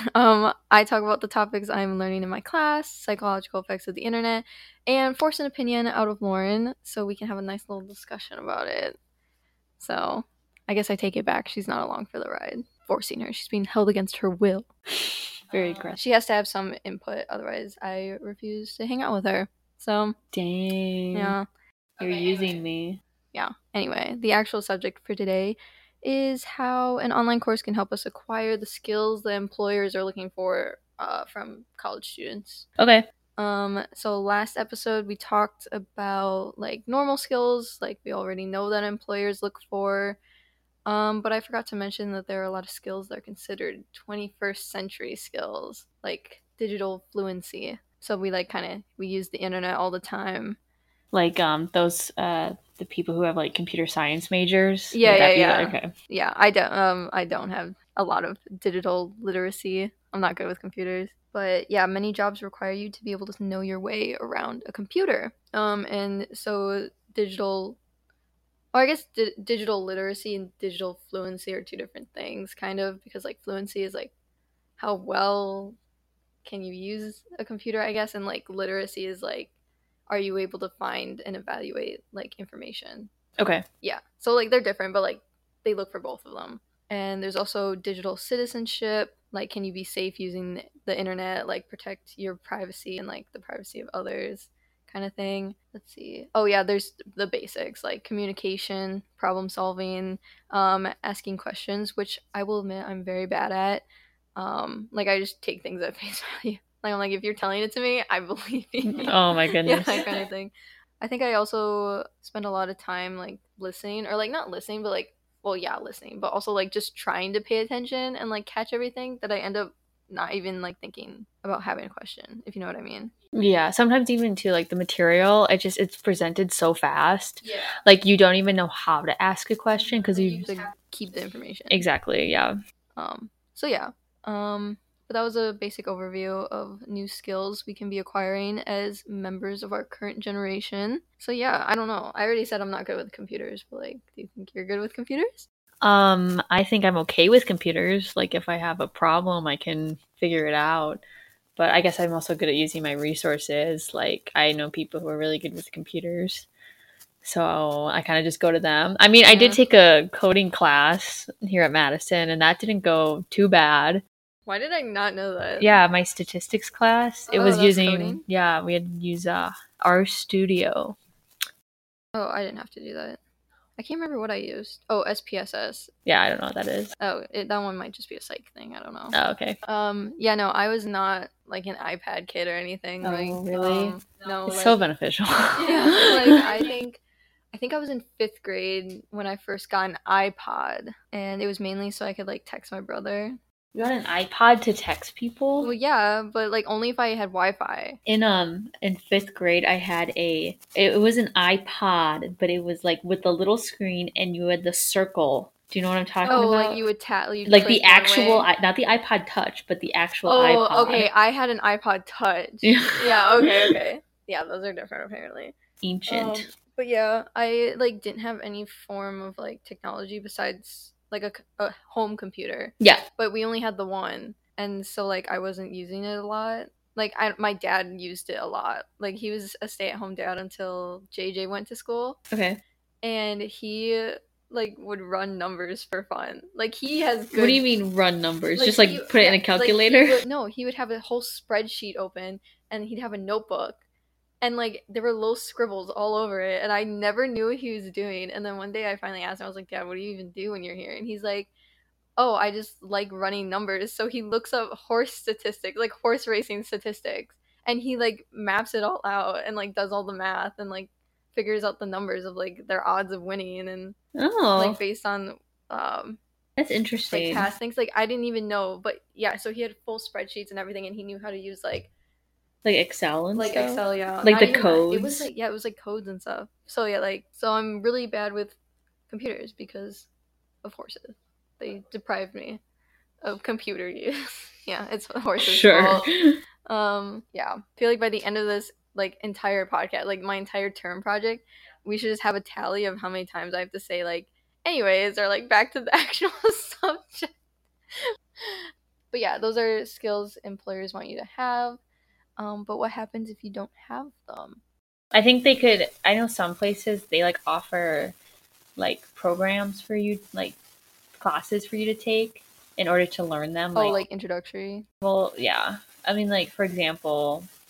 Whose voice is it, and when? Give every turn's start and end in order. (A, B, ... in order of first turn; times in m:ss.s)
0:00.2-0:09.0 A
0:09.8-0:14.7 A
0:15.0-0:16.0 B
0:15.8-0:20.2 A
0:20.3-0:21.4 B
0:21.1-0:21.4 A
0:22.0-0:23.0 B
0:23.3-0:32.7 A
0:32.8-0:33.0 B
0:33.4-0:40.2 A
0:40.9-0:50.6 A
0:51.1-0:55.9 B
0:54.9-1:07.8 A
1:08.7-1:14.1 A
1:14.8-1:15.8 A
1:16.4-1:19.5 A
1:20.1-1:23.1 A
1:23.4-1:23.6 B
1:23.8-1:43.8 A
1:44.4-2:03.1 A
1:48.8-1:50.1 B
2:03.3-2:10.6 B
2:07.4-2:07.7 A
2:10.2-2:11.8 A
2:11.7-2:12.6 B
2:13.0-2:25.5 A
2:25.8-2:31.0 B
2:31.6-2:36.5 B
2:37.2-2:44.0 B
2:39.2-2:39.6 A
2:44.5-2:45.8 A
2:45.6-2:51.0 B
2:47.3-2:48.2 A
2:52.1-2:53.2 A
2:53.8-2:55.9 A
2:56.1-2:56.9 B
2:57.0-3:04.8 A
2:59.1-2:59.6 B
3:03.0-3:06.4 B
3:05.6-3:07.0 A
3:07.5-3:13.4 A
3:13.7-3:15.7 B
3:15.6-3:18.0 A
3:18.1-3:26.8 B
3:26.2-3:28.5 A
3:27.4-3:31.1 B
3:30.2-3:35.6 A
3:32.6-3:33.8 B
3:35.8-3:36.4 B
3:36.1-3:52.2 A
3:52.3-3:52.6 B
3:53.0-3:57.6 A
3:57.3-4:00.2 B
3:58.6-4:03.8 A
4:04.4-4:11.5 A
4:12.2-4:24.0 A
4:24.2-4:24.8 B
4:24.6-4:26.2 A
4:26.6-4:27.5 B
4:27.1-4:31.9 A
4:32.6-4:35.3 B
4:33.3-4:38.6 A
4:39.1-4:40.1 A
4:40.6-4:42.6 A
4:43.2-4:46.1 A
4:45.4-4:46.4 B
4:46.7-4:57.3 A
4:58.0-5:01.8 A
5:02.4-5:04.6 A
5:05.1-5:08.2 B
5:08.8-5:10.6 B
5:11.2-5:14.0 B
5:13.8-5:14.8 A
5:15.0-5:17.5 B